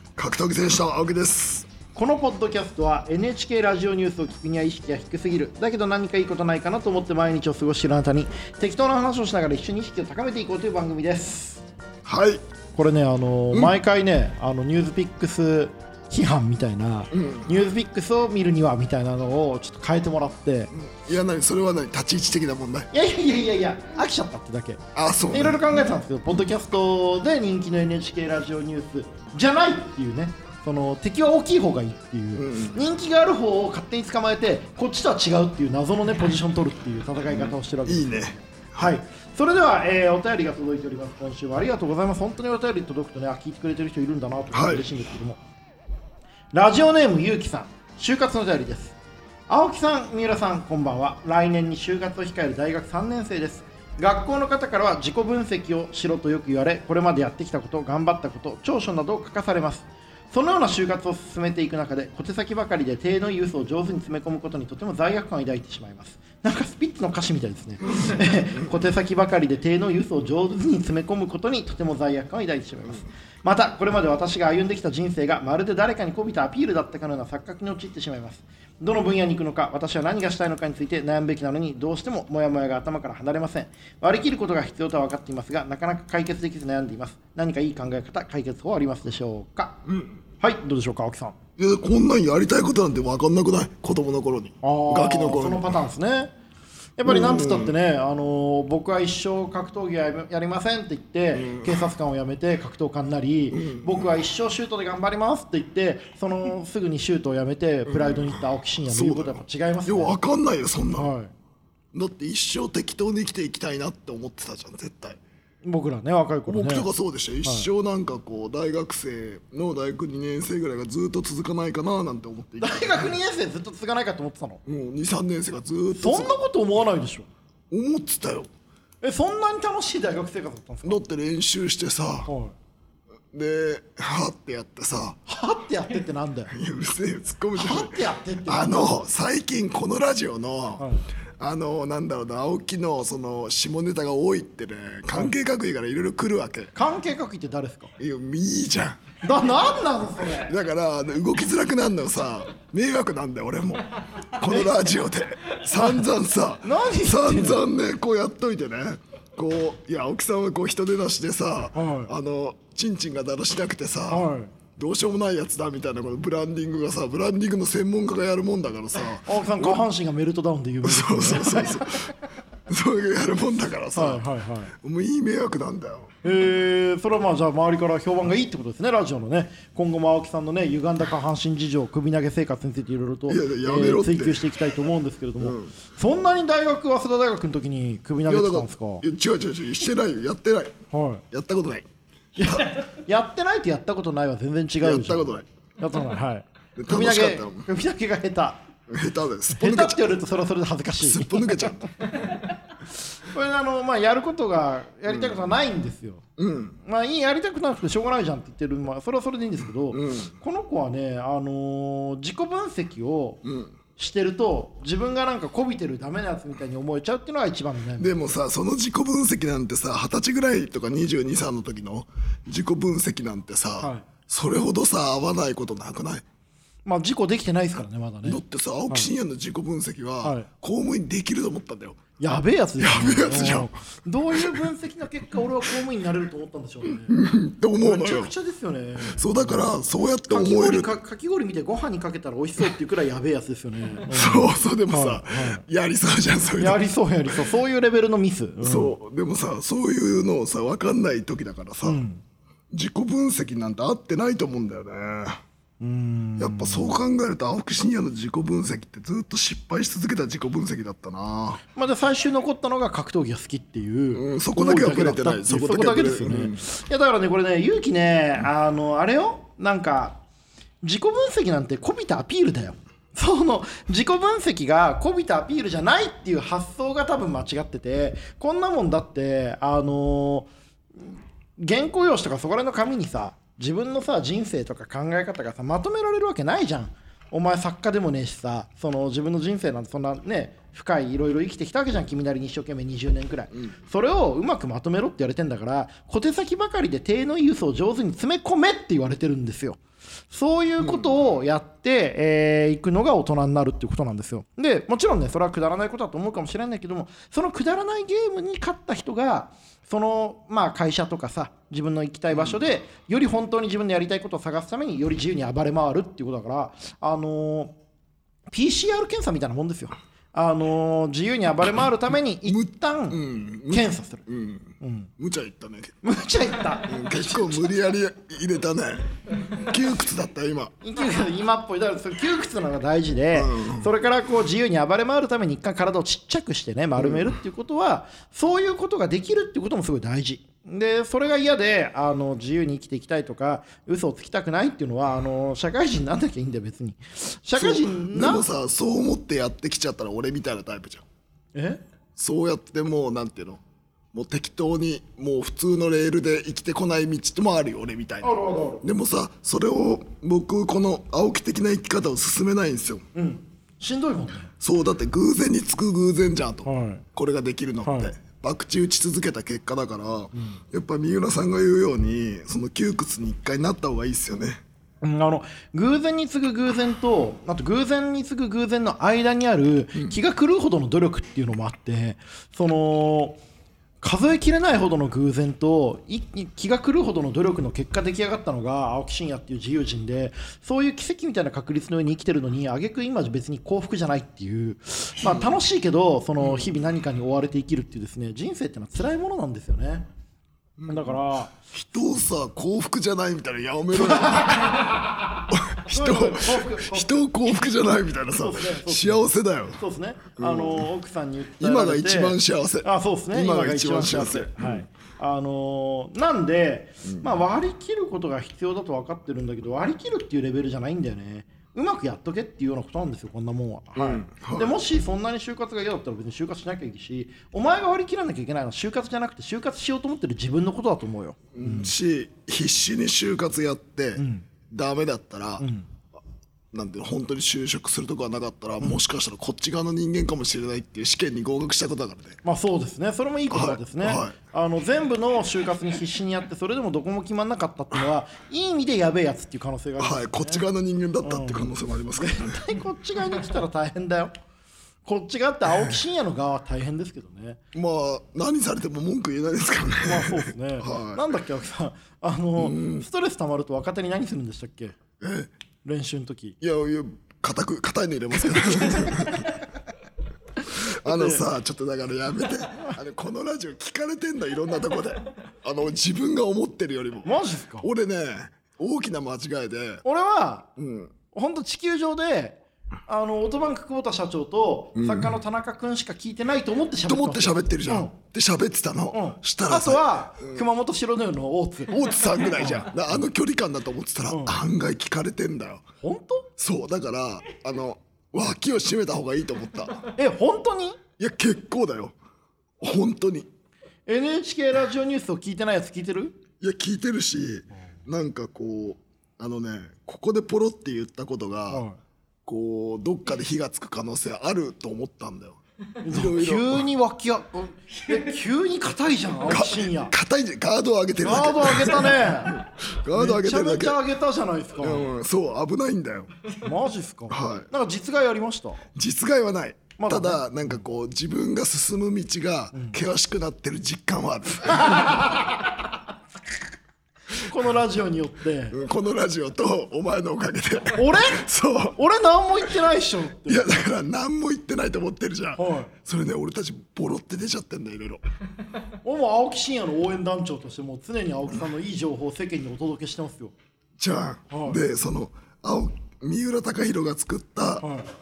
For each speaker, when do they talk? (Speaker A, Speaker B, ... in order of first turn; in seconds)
Speaker A: 0.1-1.7, 12.0-12.4, 17.1-17.5, 20.7-22.9, 24.9-25.9, 32.4-32.8, 37.3-38.9, 44.5-44.8, 89.9-90.2, 91.6-95.8, 97.0-97.8, 101.3-101.9, 103.5-104.1, 107.9-111.1, 111.9-115.2, 116.5-123.1, 124.7-126.5, 127.7-128.5, 130.8-132.3, 133.3-135.2, 136.5-140.9, 141.4-146.7, 148.0-149.0, 150.3-169.8, 170.8-172.1, 172.7-174.2, 174.8-176.1, 183.3-184.4, 185.4-185.7, 188.2-190.7, 191.3-191.9, 192.4-192.7, 194.8-195.4, 196.8-197.7, 198.9-200.1, 201.0-201.9, 205.1-205.4, 206.4-206.8, 209.9-210.3, 213.4-213.7, 218.0-226.2, 228.2-232.0, 232.8-233.7, 234.2-234.7, 237.1-238.3, 239.1-240.9, 244.1-247.3, 248.6-252.0, 252.7-255.4, 256.4-261.6, 264.1-266.6, 300.8-301.1, 312.3-312.6, 322.5-326.0, 326.9-330.7, 333.3-333.9, 337.0-337.4, 347.6-351.1, 352.2-353.6, 354.1-363.1, 364.6-374.6, 396.4-396.7, 400.8-404.9, 405.5-409.8, 410.4-410.9, 411.6-414.9, 417.1-417.3, 424.0-424.8, 431.5-435.6, 436.7-442.4, 443.5-444.4, 450.0-452.6, 457.7-461.2, 462.6-463.1, 465.2-465.5, 466.6-469.6, 470.7-480.0, 480.8-481.1, 485.0-485.4, 487.1-490.7, 491.9-495.8, 496.6-500.1, 501.2-502.1, 502.8-503.5, 506.6-511.8, 512.5-516.8, 519.4-524.0, 524.8-526.3, 527.3-527.7, 528.9-535.4, 538.7-542.0, 543.5-548.2, 554.0-557.9
Speaker B: 1.9-11.6, 12.8-20.7, 22.9-45.4, 46.5-49.0, 49.5-89.8, 90.4-91.3, 94.6-96.3, 97.0-110.2, 110.9-111.3, 115.6-116.9, 117.4-117.7, 122.6-124.6, 126.0-127.3, 129.0-131.0, 132.2-132.5, 135.3-136.5, 137.5-139.0, 140.8-141.0, 146.7-147.9, 149.2-150.6, 154.5-154.7, 155.7-156.1, 156.6-157.6, 161.7-162.1, 164.1-164.5, 169.2-172.1, 173.9-174.7, 176.2-189.0, 190.9-191.2, 192.3-198.6, 199.5-202.4, 203.0-206.2, 206.8-213.4, 213.9-218.2, 223.8-224.1, 226.8-229.1, 230.2-230.5, 232.2-237.2, 237.8-239.6, 240.3-245.7, 246.6-248.9, 251.8-252.2, 255.8-257.0, 261.8-270.2, 270.8-317.8, 318.5-324.2, 324.8-325.1, 326.0-327.9, 330.8-348.5, 351.5-351.8, 358.2-358.8, 363.1-364.5, 366.6-367.1, 367.8-368.1, 370.4-370.6, 375.0-383.4, 384.0-400.1, 400.9-401.6, 404.0-404.9, 405.9-407.2, 408.3-431.9, 434.2-434.4, 435.6-435.9, 442.4-450.6, 451.2-454.3, 455.1-457.6, 460.0-465.0, 465.9-466.6, 469.0-469.4, 471.0-471.4, 477.2-477.9, 480.0-480.7, 481.3-488.1, 489.1-492.0, 492.6-492.9, 494.3-494.6, 496.0-496.5, 500.2-501.0, 504.1-506.4, 511.7-512.0, 516.0-520.1, 521.2-525.1, 526.6-528.9, 530.0-530.8, 534.8-535.2, 537.4-538.8, 540.9-543.8, 545.5-545.9, 549.0-553.5, 554.5-554.8, 557.8-558.1